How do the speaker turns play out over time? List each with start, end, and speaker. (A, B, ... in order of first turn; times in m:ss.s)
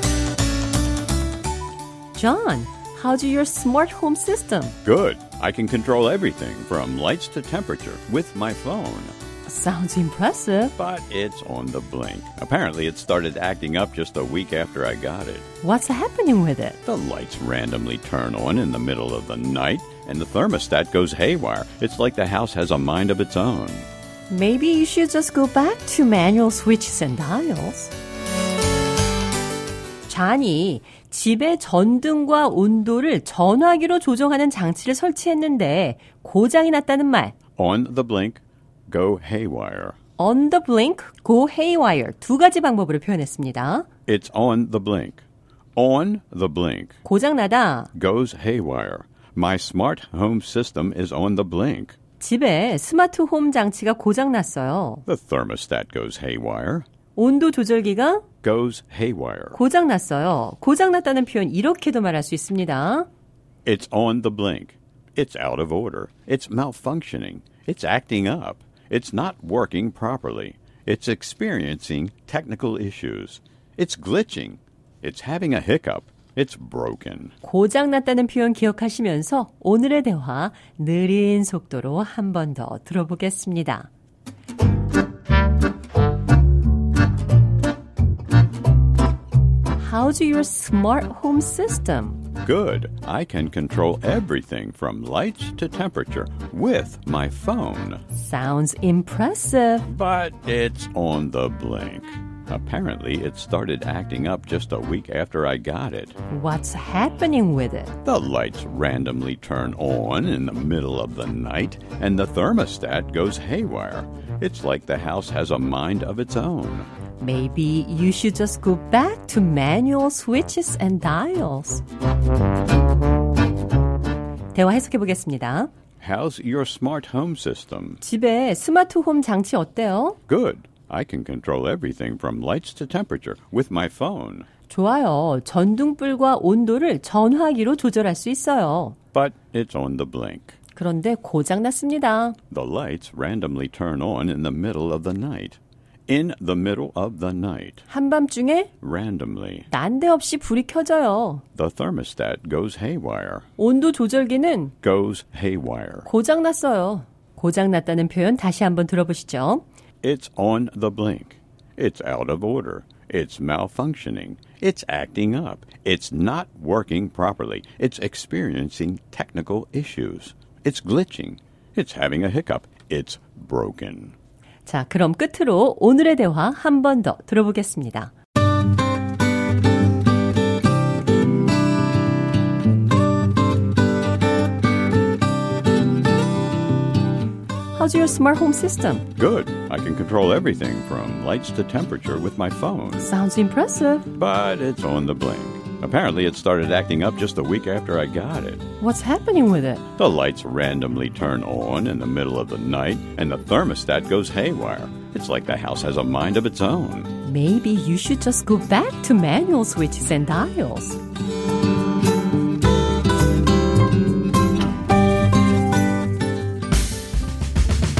0:02.1-0:04.8 A
0:04.8-0:09.1 B
0:09.5-0:10.7 A
0:10.8-0:15.4 B
0:15.6-0:16.8 A
0:16.8-0:23.9 B
0:24.3-0:27.9 A
0:30.1-0:37.3 A
0:37.6-0:40.0 B
0:40.2-0:43.9 A
0:44.1-0:45.2 B
0:45.8-0:47.0 B
0:47.0-0:47.9 A
0:47.9-0:52.0 B
0:52.2-0:55.0 A
0:55.1-0:56.8 B
0:57.2-0:58.2 A
0:58.4-0:59.6 B
0:59.5-1:03.1 A
1:03.6-1:17.3 B
1:17.4-1:23.9 A
1:29.8-1:32.2 A
1:32.4-1:38.0 B
1:38.1-1:39.9 A
1:39.9-1:46.1 B
1:46.3-1:48.0 A
1:48.0-1:56.9 B
1:57.2-2:01.8 A
2:04.5-2:05.7 A
2:06.0-2:08.0 B
2:08.0-2:10.2 A
2:10.3-2:14.5 B
2:14.7-2:19.0 A
2:19.1-2:20.6 B
2:20.7-2:22.4 A
2:22.5-2:27.8 B
2:27.9-2:28.7 A
2:28.8-2:29.7 B
2:29.7-2:31.4 A
2:31.6-2:33.5 B
2:33.6-2:34.7 A
2:34.8-2:36.1 B
2:36.0-2:39.6 A
2:40.0-2:54.1 B
2:54.6-2:58.1 A
3:07.8-3:09.1 A
3:09.2-3:13.1 B
3:13.0-3:14.1 A
3:14.1-3:18.6 B
3:18.8-3:19.8 A
3:20.0-3:27.1 B
3:27.2-3:31.0 A